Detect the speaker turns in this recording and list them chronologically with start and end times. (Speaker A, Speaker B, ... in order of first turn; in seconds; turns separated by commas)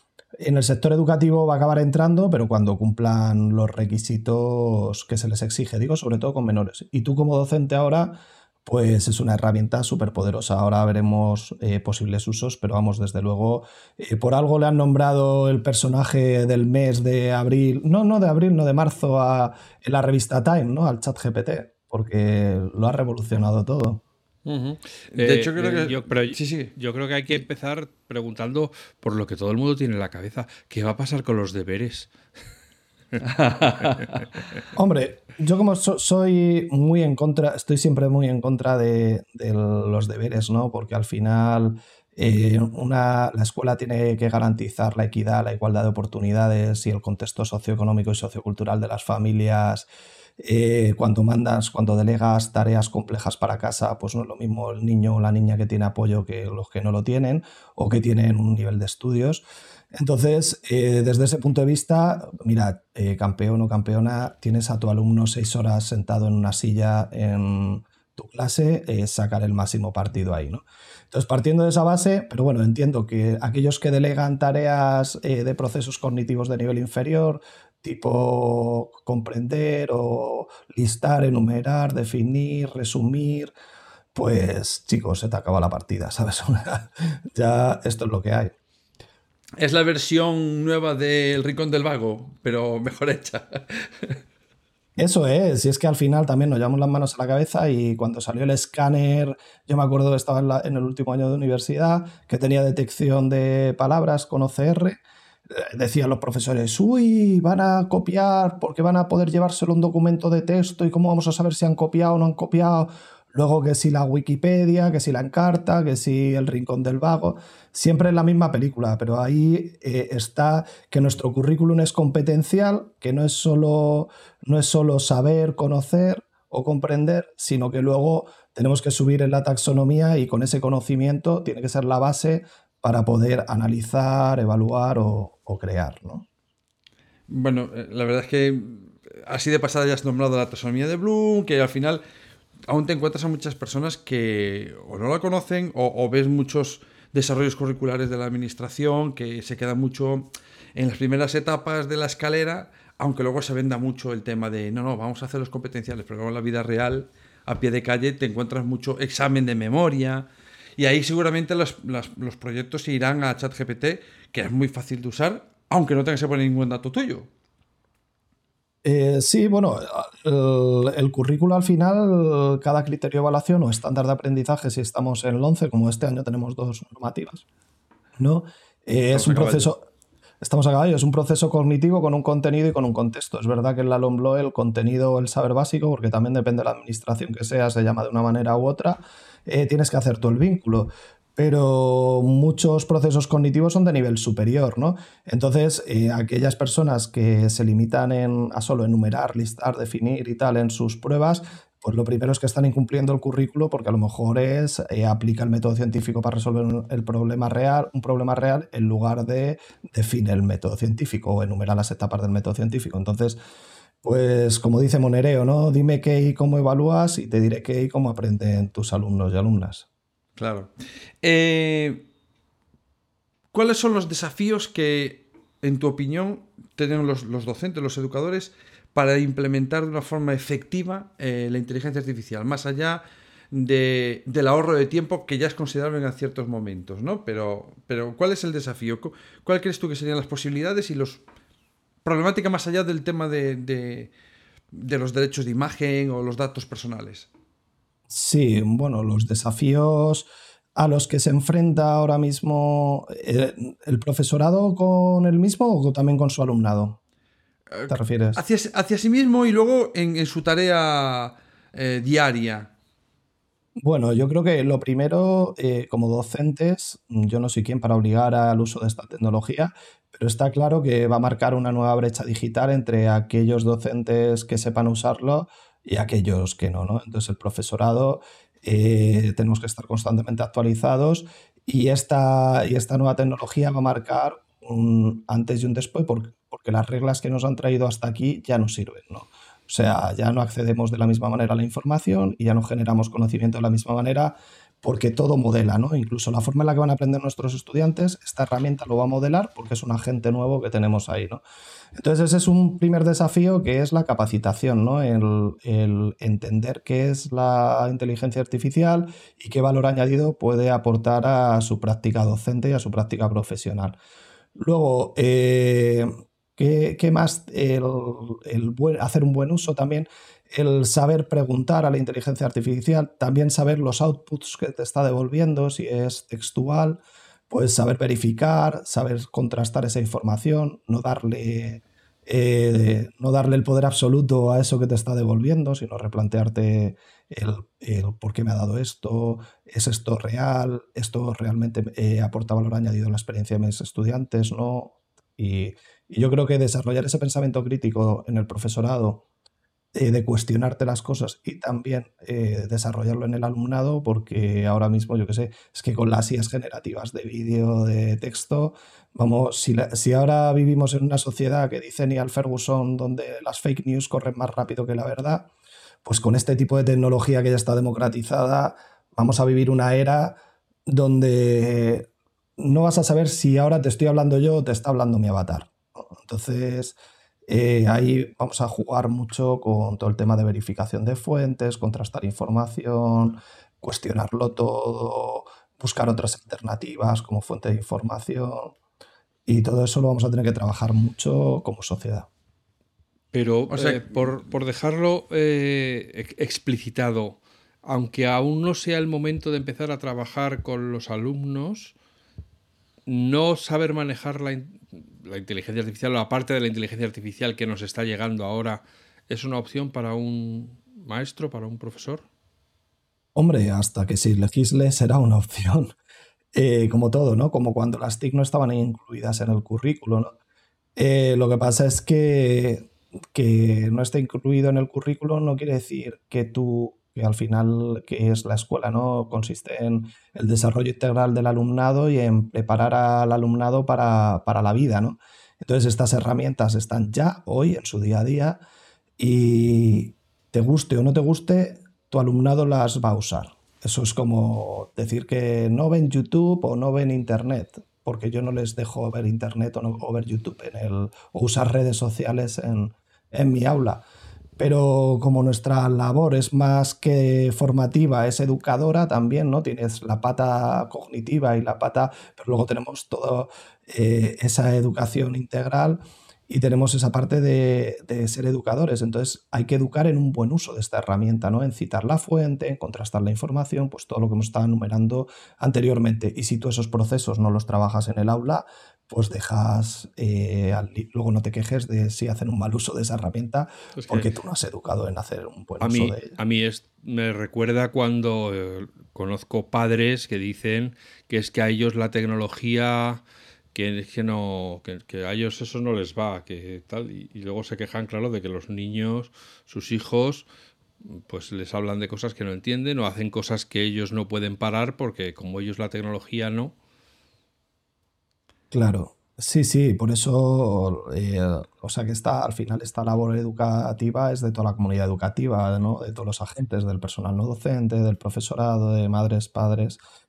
Speaker A: 0.4-24.0, Speaker B: 24.4-32.1, Speaker C: 25.1-26.7, Speaker C: 33.2-34.2, Speaker A: 34.7-49.9, Speaker A: 50.4-83.5, Speaker A: 84.1-88.5, Speaker C: 89.6-94.2, Speaker A: 95.0-136.2, Speaker C: 137.3-142.0, Speaker C: 142.7-167.3, Speaker A: 168.8-177.4, Speaker A: 178.2-179.8, Speaker C: 179.1-179.7, Speaker A: 180.4-213.4, Speaker A: 214.0-219.8, Speaker C: 220.4-220.7, Speaker C: 221.2-222.1, Speaker C: 223.5-241.2, Speaker C: 242.1-244.1, Speaker C: 244.7-247.3, Speaker A: 248.1-257.0, Speaker C: 257.7-262.7, Speaker A: 257.9-258.4, Speaker A: 263.8-301.4, Speaker A: 301.9-313.9, Speaker A: 314.6-349.2, Speaker A: 349.9-365.5, Speaker A: 366.1-376.9, Speaker A: 377.5-388.7, Speaker A: 389.5-392.3, Speaker B: 393.3-401.9, Speaker C: 393.7-394.3, Speaker B: 403.1-412.2, Speaker A: 413.3-415.9, Speaker A: 416.5-420.3, Speaker A: 420.9-438.6, Speaker A: 439.2-454.0, Speaker A: 454.6-486.3, Speaker B: 484.0-484.3, Speaker B: 485.8-493.2, Speaker B: 493.7-500.4, Speaker B: 501.1-506.7, Speaker A: 508.7-520.0